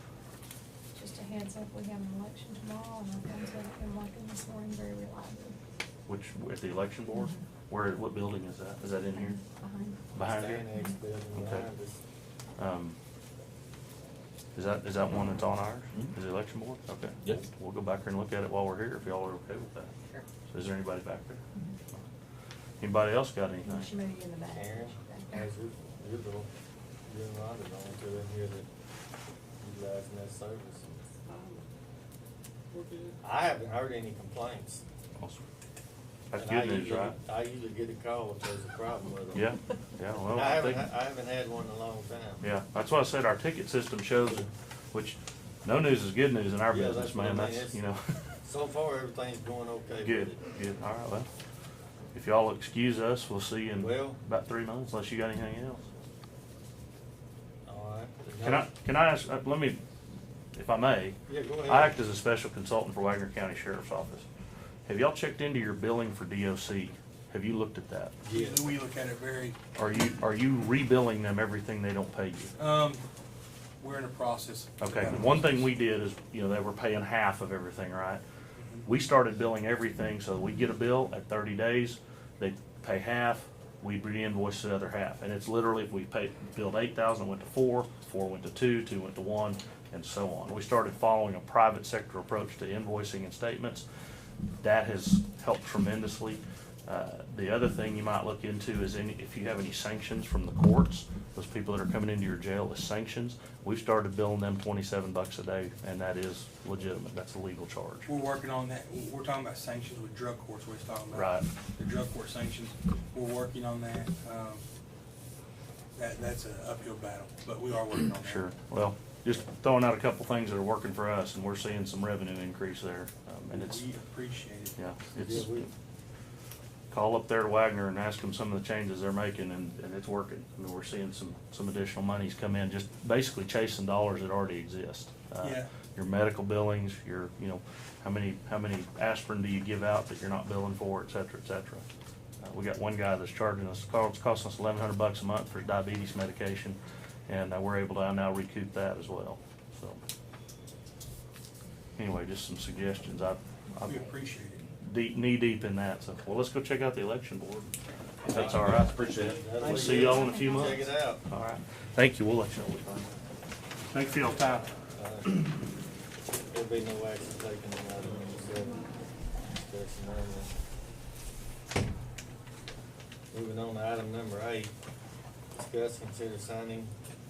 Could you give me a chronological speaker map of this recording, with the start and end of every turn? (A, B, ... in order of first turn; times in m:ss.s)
0:01.0-0:05.6 A
0:06.1-0:09.4 B
0:09.2-0:10.0 A
0:10.1-0:10.7 B
0:10.2-0:12.0 C
0:11.3-0:11.7 B
0:12.6-0:13.0 B
0:14.6-0:19.9 B
0:20.5-0:21.4 B
0:22.8-0:23.9 B
0:23.6-0:25.4 A
0:24.5-0:26.5 C
0:27.1-0:28.7 C
0:29.6-0:31.0 C
0:33.2-0:34.8 C
0:36.3-0:37.2 B
0:36.4-0:39.5 C
0:39.3-0:40.9 B
0:40.3-0:42.5 C
0:42.4-0:48.0 B
0:44.2-0:44.5 C
0:46.7-0:47.8 C
0:48.4-0:50.4 C
0:50.0-0:51.3 B
0:52.1-0:55.8 B
0:53.8-0:54.2 C
0:57.7-0:58.7 C
0:58.4-0:59.8 B
1:00.5-1:04.3 B
1:01.3-1:02.0 C
1:04.9-1:08.2 B
1:08.2-1:08.7 C
1:08.3-1:09.6 D
1:09.8-1:12.5 B
1:12.6-1:13.0 D
1:13.8-1:15.7 D
1:14.8-1:18.2 B
1:18.6-1:18.9 D
1:18.9-1:33.8 B
1:34.6-1:48.1 B
1:48.1-1:54.6 D
1:51.1-1:51.5 B
1:55.9-1:58.5 D
1:58.2-2:03.9 B
2:03.5-2:04.8 D
2:04.8-2:05.7 B
2:05.2-2:05.7 C
2:06.9-2:21.8 B
2:15.4-2:15.7 D
2:22.4-2:26.8 B
2:27.3-2:30.0 B
2:32.0-2:34.1 B
2:33.8-2:34.7 D
2:34.8-2:37.7 B
2:38.2-2:43.1 B
2:38.3-2:41.2 C
2:39.5-2:40.2 D
2:40.2-2:40.7 A
2:43.8-2:44.7 B
2:44.9-2:45.5 C
2:46.5-2:48.9 C
2:49.6-2:50.5 C
2:53.3-2:54.7 C
2:55.5-2:56.9 C